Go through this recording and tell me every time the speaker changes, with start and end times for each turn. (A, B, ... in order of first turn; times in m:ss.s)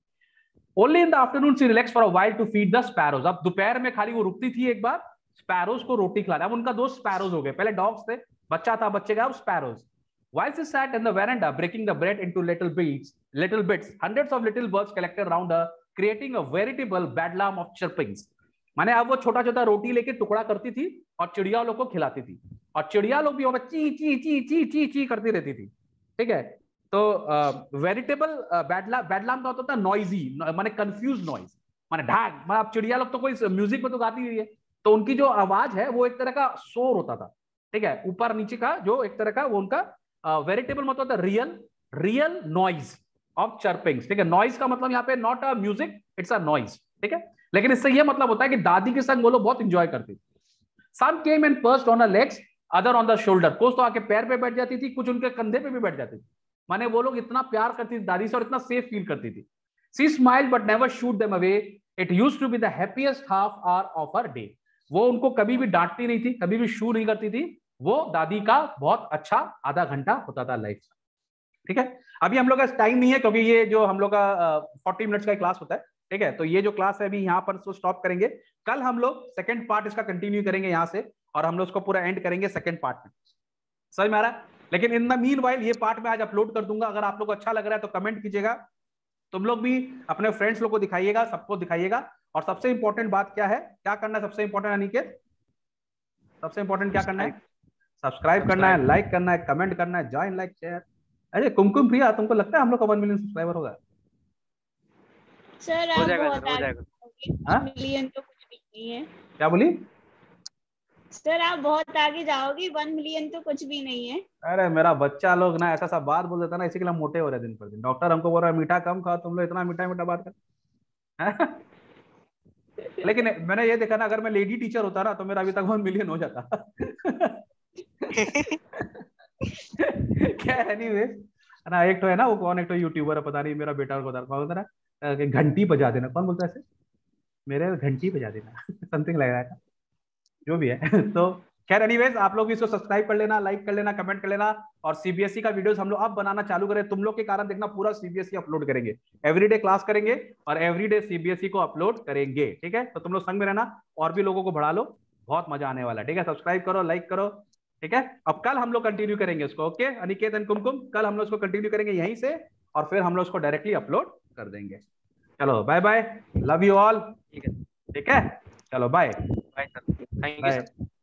0:00.8-0:50.2 A
0:50.9-1:10.9 A
1:11.6-1:23.1 A
1:23.9-1:28.6 A
1:29.3-1:35.2 A
1:36.4-1:37.3 A
1:37.0-1:37.3 B
1:38.0-1:43.8 A
1:38.4-1:38.8 B
1:45.6-1:49.1 C
1:45.9-1:46.8 B
1:49.4-1:49.8 A
1:51.1-1:54.2 C
1:54.4-2:00.3 A
2:01.2-2:01.6 A
2:03.0-2:07.4 A
2:08.1-2:08.5 B
2:08.3-2:09.0 A
2:09.7-2:16.6 A
2:17.5-2:19.6 A
2:20.4-2:44.8 A
2:45.4-2:47.2 A
2:47.9-2:49.2 A
2:49.5-2:50.7 B
2:50.4-2:50.7 A